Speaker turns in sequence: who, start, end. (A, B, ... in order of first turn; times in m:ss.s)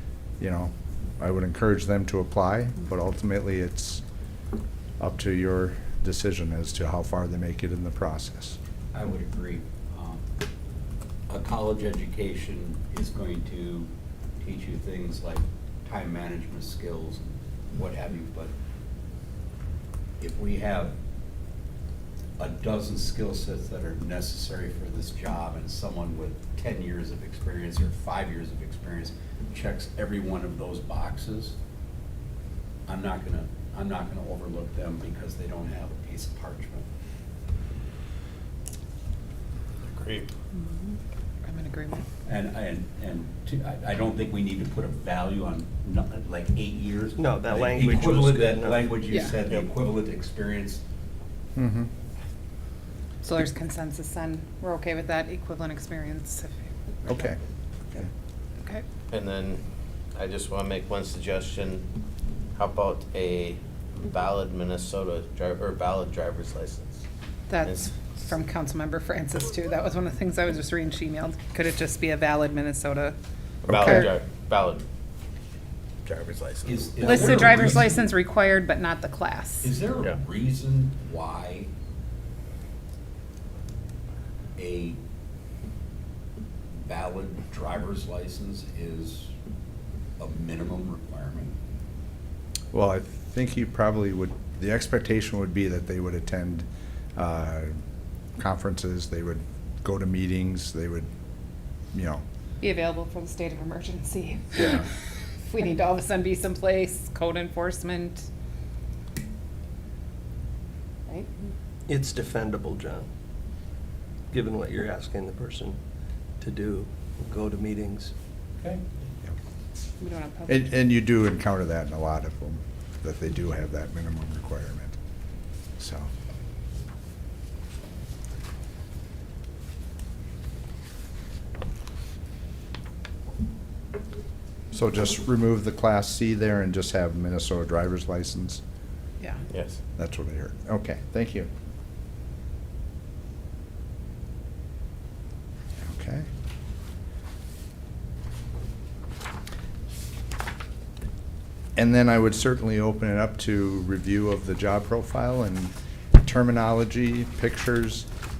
0:00.4-0:04.0 A
0:05.0-0:08.6 A
0:08.9-0:10.2 B
0:11.3-0:18.5 B
0:20.2-0:21.0 B
0:22.4-0:31.6 B
0:32.9-0:36.9 B
0:39.8-0:40.3 C
0:40.5-0:42.0 D
0:42.2-0:50.8 B
0:47.2-0:48.9 E
0:49.1-0:49.4 D
0:51.6-0:51.9 A
0:53.2-0:57.2 D
0:57.1-0:57.4 A
0:59.1-0:59.6 C
1:00.2-1:01.9 C
1:02.5-1:07.0 C
1:07.5-1:13.2 D
1:13.7-1:14.8 C
1:13.7-1:14.2 D
1:16.0-1:17.1 C
1:16.6-1:18.1 B
1:17.0-1:19.7 D
1:19.6-1:21.7 B
1:24.6-1:25.0 B
1:26.8-1:29.3 B
1:30.2-1:31.6 B
1:32.7-1:37.8 A
1:38.4-1:41.1 A
1:41.9-1:42.2 A
1:42.6-1:44.9 D
1:44.6-1:44.9 A
1:45.5-1:48.3 D
1:51.9-1:53.1 E
1:54.3-1:55.8 E
1:56.4-1:58.1 E
2:00.0-2:00.7 D
2:00.5-2:05.0 A
2:05.8-2:06.1 A
2:14.7-2:18.6 A
2:19.2-2:19.4 D
2:19.5-2:19.8 C
2:20.0-2:21.5 A
2:25.8-2:26.3 A
2:31.8-2:38.1 A